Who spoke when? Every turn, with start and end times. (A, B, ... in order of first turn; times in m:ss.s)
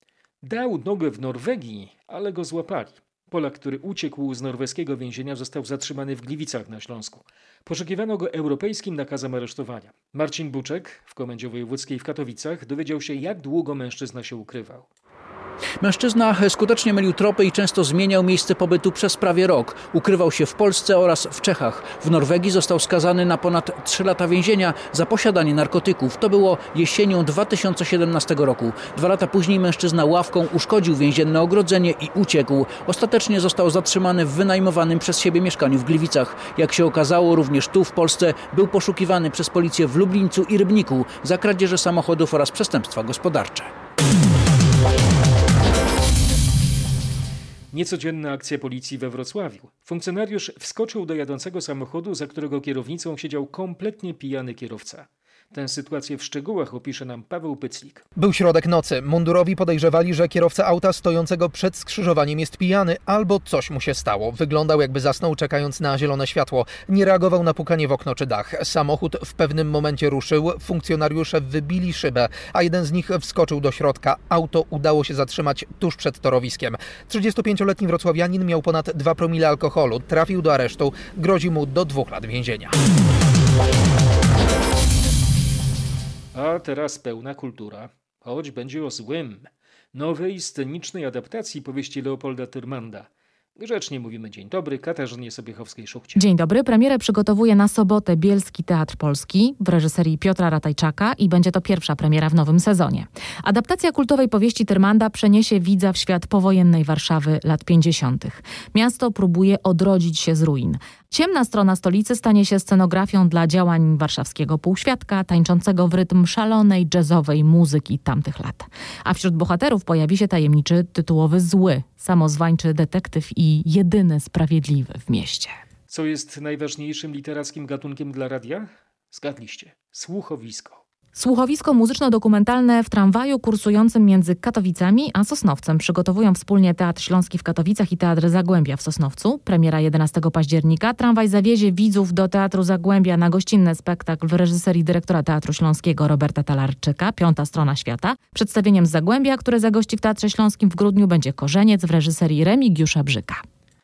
0:00.4-0:14.9 A
0:15.8-0:43.7 B
0:47.7-0:58.0 A
0:58.2-1:22.7 C
1:26.3-1:36.2 A
1:36.1-2:05.6 D
2:05.9-2:10.8 A
2:11.1-2:33.4 D